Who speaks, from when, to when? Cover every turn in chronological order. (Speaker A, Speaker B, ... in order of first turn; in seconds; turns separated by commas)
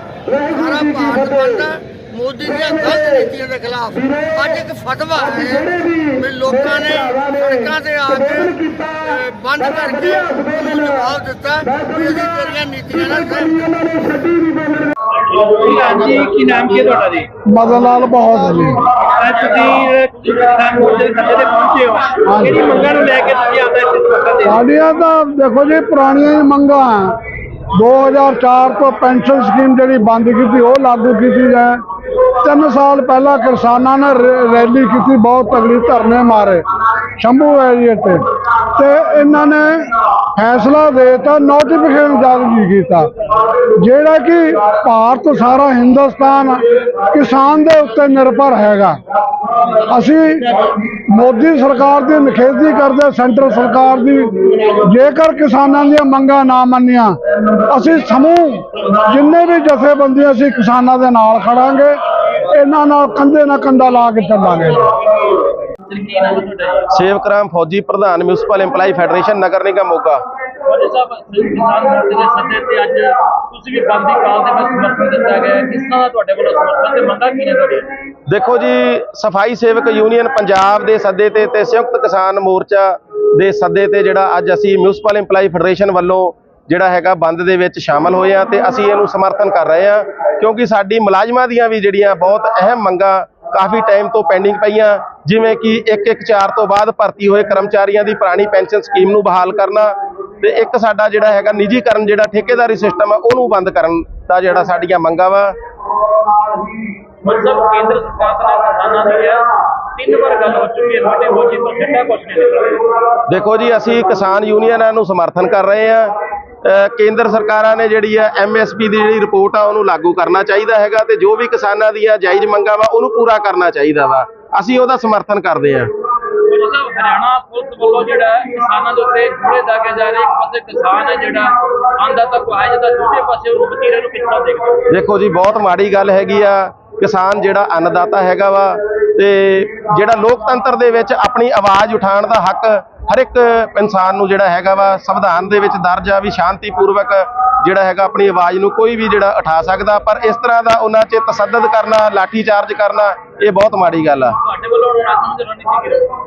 Speaker A: 0.3-13.9, Speaker B: 15.6-17.2, Speaker C: 17.5-18.8, Speaker B: 19.1-24.5, Speaker C: 22.2-22.9, Speaker D: 23.2-23.5, Speaker C: 24.4-27.1, Speaker C: 27.7-31.8, Speaker C: 32.4-36.6, Speaker C: 37.2-38.2, Speaker C: 38.7-43.1, Speaker C: 43.8-49.0, Speaker C: 49.8-62.0, Speaker C: 62.5-64.9, Speaker D: 65.9-66.8, Speaker E: 66.9-70.2, Speaker D: 70.7-77.9, Speaker E: 78.3-105.5, Speaker D: 107.2-112.9, Speaker E: 113.3-125.9, Speaker D: 126.5-134.8, Speaker E: 134.9-154.3, Speaker D: 154.5-156.1